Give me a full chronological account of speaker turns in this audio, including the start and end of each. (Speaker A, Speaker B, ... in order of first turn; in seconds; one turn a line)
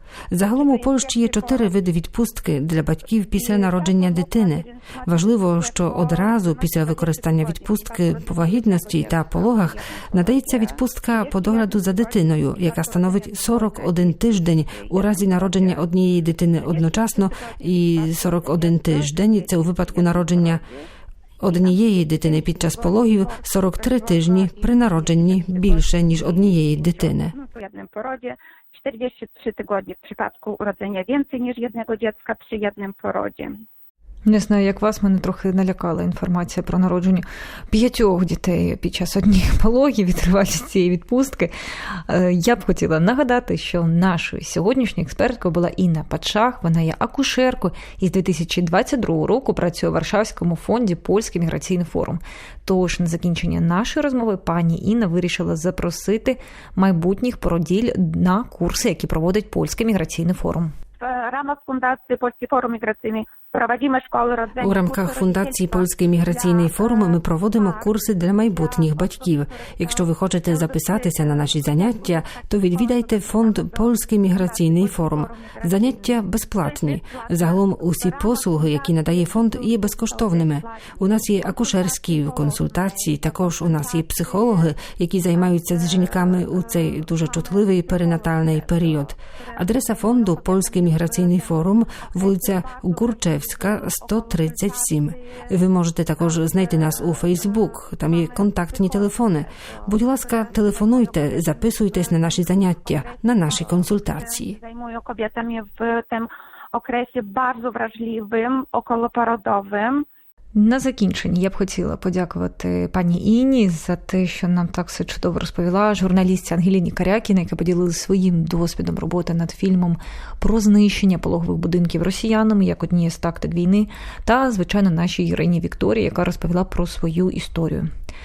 Speaker A: 0.3-20.6
Speaker B: 0.4-1.8
Speaker B: 3.3-15.9
Speaker B: 16.6-20.9
Speaker A: 21.4-27.3
Speaker B: 21.4-33.6
Speaker C: 34.2-60.7
Speaker B: 61.0-84.8
Speaker A: 64.6-104.6
Speaker B: 85.3-95.5
Speaker B: 96.2-110.0
Speaker C: 110.5-127.9